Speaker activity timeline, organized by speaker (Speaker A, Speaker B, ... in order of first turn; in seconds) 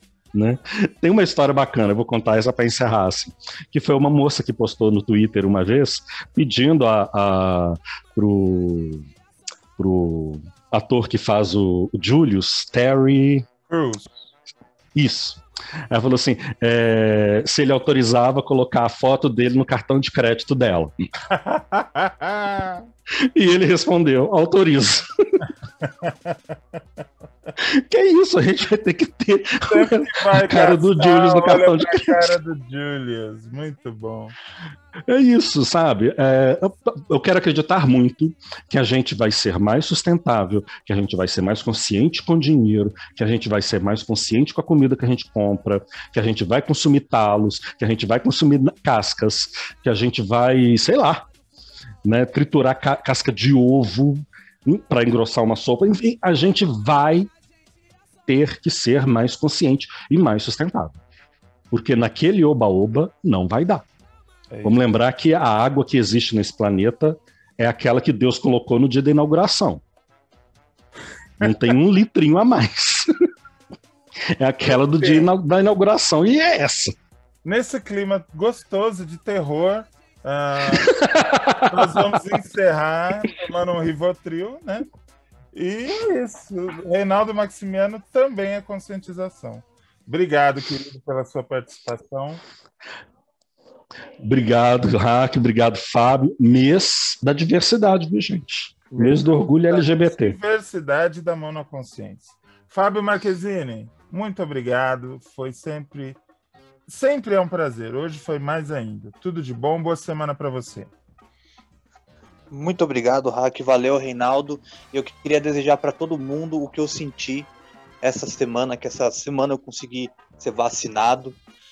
Speaker A: 0.3-9.1, 9.8-13.5, 14.9-20.9, 23.3-25.4, 27.6-32.3, 35.1-51.3, 52.0-57.3, 58.3-61.0, 61.7-63.9, 64.6-69.8, 71.4-73.1, 74.4-76.9, 80.8-82.1, 94.2-100.4
Speaker B: 13.7-14.3, 21.3-22.9, 25.8-26.4, 29.7-34.4, 64.5-64.8, 74.6-75.3, 77.4-80.9, 81.7-84.9, 85.5-92.4, 98.9-106.2, 106.9-110.9
Speaker C: 112.5-117.5, 118.0-121.4